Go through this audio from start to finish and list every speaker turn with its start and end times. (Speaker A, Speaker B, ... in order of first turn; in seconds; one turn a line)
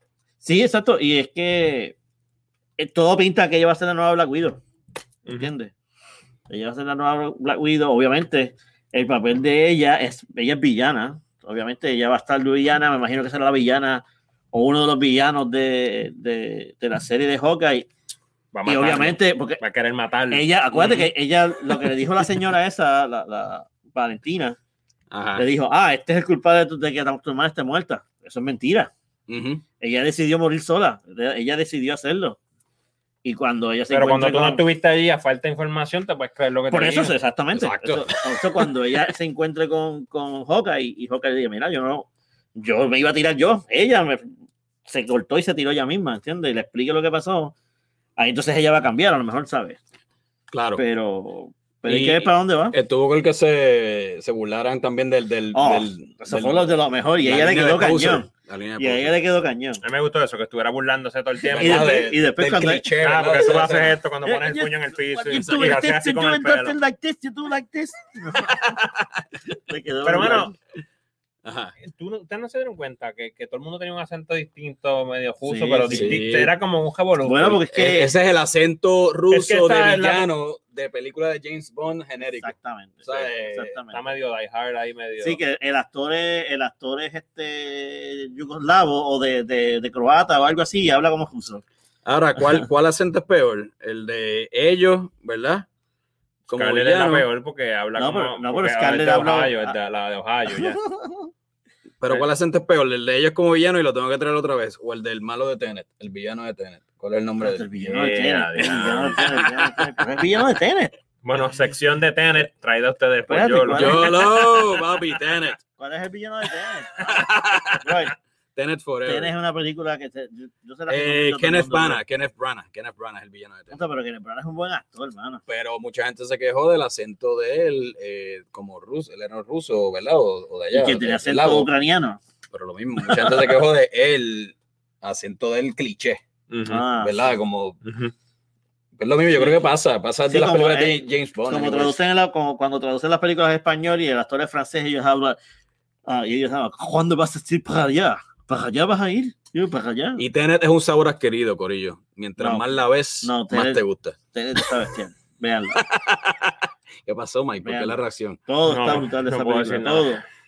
Speaker A: 0.4-2.0
Speaker A: 2.8-4.6
Speaker B: 5.3-5.5
Speaker A: 5.3-5.7
Speaker A: 6.5-17.9
Speaker B: 18.5-20.5
Speaker A: 18.7-19.6
Speaker A: 20.3-24.6
Speaker C: 20.8-21.1
Speaker C: 25.1-25.4
Speaker A: 25.4-28.9
Speaker C: 29.3-29.6
Speaker A: 29.8-32.4
Speaker A: 33.2-34.6
Speaker B: 33.9-37.1
Speaker A: 36.7-44.3
Speaker C: 37.5-38.2
Speaker A: 44.9-47.5
Speaker A: 48.2-49.8
Speaker C: 50.5-50.8
Speaker A: 50.8-52.8
Speaker C: 51.9-59.1
Speaker A: 55.5-59.8
Speaker B: 59.8-62.1
Speaker C: 61.5-64.0
Speaker A: 61.5-62.9
Speaker B: 63.0-66.8
Speaker A: 64.2-68.9
Speaker C: 65.4-65.7
Speaker A: 69.5-70.5
Speaker B: 70.0-70.5
Speaker C: 71.4-71.8
Speaker B: 71.8-77.6
Speaker A: 75.4-76.2
Speaker C: 75.9-76.5
Speaker A: 77.2-78.1
Speaker C: 77.7-83.8
Speaker B: 79.3-80.3
Speaker A: 82.2-84.0
Speaker B: 83.9-85.4
Speaker A: 85.2-91.6
Speaker C: 92.0-95.7
Speaker C: 96.5-97.3
Speaker B: 96.5-100.8
Speaker A: 98.0-99.8
Speaker A: 100.5-101.3
Speaker C: 102.0-107.7
Speaker A: 107.4-111.0
Speaker B: 107.8-109.3
Speaker B: 111.2-114.3
Speaker A: 113.3-114.3
Speaker C: 113.7-115.6
Speaker A: 115.7-118.1
Speaker C: 117.0-118.0
Speaker C: 118.6-119.3
Speaker A: 119.0-122.0
Speaker C: 120.9-123.8
Speaker A: 123.7-125.4
Speaker C: 125.5-131.7
Speaker A: 130.7-132.2
Speaker C: 132.5-136.2
Speaker A: 133.0-133.5
Speaker B: 136.5-136.8
Speaker A: 136.7-137.3
Speaker C: 137.0-137.8
Speaker B: 137.8-138.1
Speaker C: 139.0-141.9
Speaker A: 140.3-145.4
Speaker A: 146.1-150.2
Speaker C: 150.2-154.7
Speaker A: 152.4-155.8
Speaker C: 155.8-158.4
Speaker A: 157.6-160.2
Speaker B: 158.7-160.1